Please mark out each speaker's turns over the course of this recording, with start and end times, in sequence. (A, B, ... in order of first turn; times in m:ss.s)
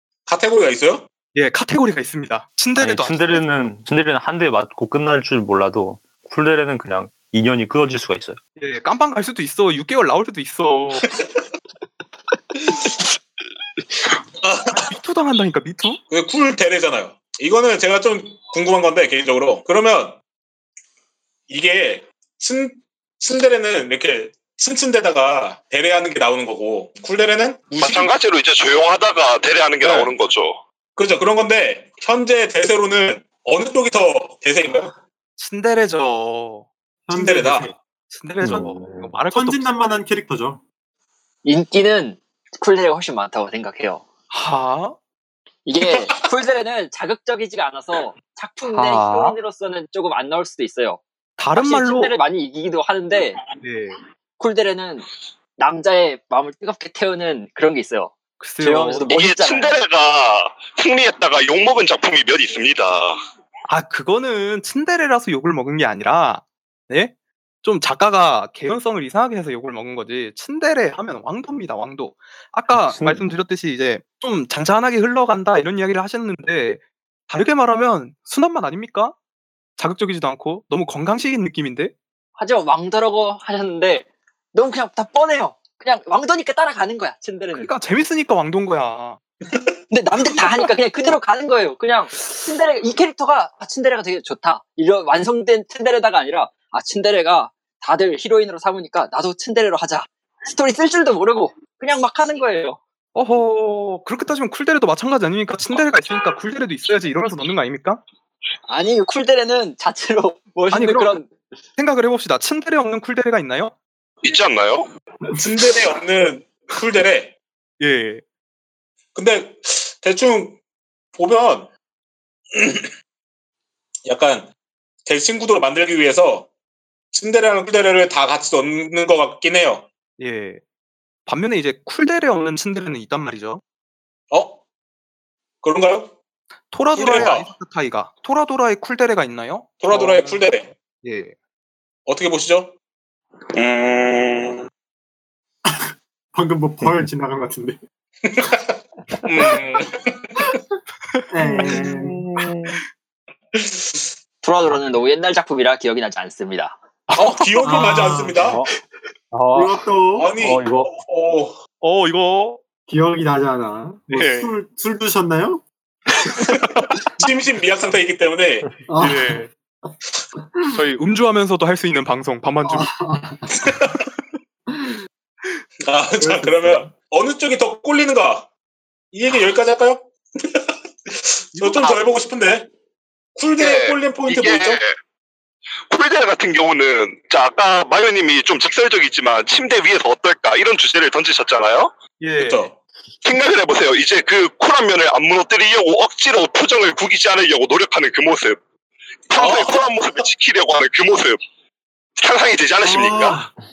0:00.3-0:01.1 A
0:01.3-0:03.4 B
0:02.8-0:08.4 C
0:08.6-0:11.0 B
0:14.4-0:14.9 A
0:14.7-0:16.0 B
0:16.1-0:20.2 A
0:21.5-0:28.1 A
0:27.8-0:30.6 D
0:29.8-0:30.1 A
0:31.0-0:34.9 A
0:35.4-0:36.7 B
0:37.1-0:37.7 E
0:37.1-0:37.7 A
0:38.1-0:39.8 B
0:38.4-0:39.1 C
0:39.3-0:40.6 E
0:41.4-0:44.0 F
0:44.3-0:45.0 B
0:45.6-0:51.0 F
0:48.6-0:49.4 B
0:51.4-0:52.2 B
0:51.5-0:53.4 F
0:53.6-0:54.0 B
0:54.4-0:55.0 F
0:55.6-0:59.8 F
0:58.4-0:59.1 B
0:59.1-1:03.2 D
1:03.7-1:19.1 B
1:12.7-1:13.3 C
1:19.8-1:21.9 B
1:22.4-1:27.7 F
1:27.5-1:29.2 B
1:29.9-1:42.8 F
1:30.3-1:30.6 B
1:43.1-1:48.0 B
1:48.7-1:51.3 F
1:50.7-1:51.2 B
1:51.8-1:53.7 B
1:54.2-1:54.9 D
1:55.3-1:57.3 A
1:57.8-1:58.2 B
1:59.1-2:00.6 A
2:01.2-2:01.7 A
2:02.5-2:02.9 A
2:04.0-2:04.5 A
2:05.0-2:06.5 A
2:07.1-2:09.9 A
2:10.2-2:10.6 B
2:11.2-2:13.6 B
2:14.3-2:14.6 A
2:15.6-2:16.1 A
2:16.7-2:20.4 B
2:16.9-2:17.5 A
2:19.8-2:20.7 A
2:21.0-2:21.3 B
2:22.0-2:22.7 A
2:23.5-2:24.6 D
2:25.6-2:27.8 E
2:28.2-2:30.5 A
2:31.1-2:31.8 B
2:31.3-2:32.2 E
2:31.4-2:32.8 C
2:33.5-2:34.1 A
2:34.4-2:36.8 F
2:37.1-2:37.9 B
2:37.2-2:38.6 A
2:37.6-2:38.4 E
2:38.4-2:38.7 C
2:39.3-2:39.8 C
2:39.5-2:40.3 E
2:40.2-2:41.6 A
2:40.4-2:40.9 C
2:41.8-2:42.6 B
2:42.9-2:45.6 E
2:44.1-2:44.5 B
2:47.2-2:48.7 A
2:48.9-2:49.4 E
2:49.0-2:49.5 B
2:50.7-2:52.9 B
2:52.6-2:53.8 E
2:53.6-2:54.0 A
2:54.7-2:55.0 E
2:55.8-2:58.5 A
2:56.2-2:56.9 E
2:59.1-3:02.7 A
3:01.6-3:02.0 B
3:03.4-3:04.8 A
3:03.6-3:05.0 D
3:05.9-3:11.9 D
3:12.2-3:12.7 B
3:12.4-3:12.8 A
3:13.2-3:18.6 D
3:19.3-3:21.4 D
3:19.4-3:20.3 A
3:22.2-3:23.4 D
3:22.8-3:23.5 E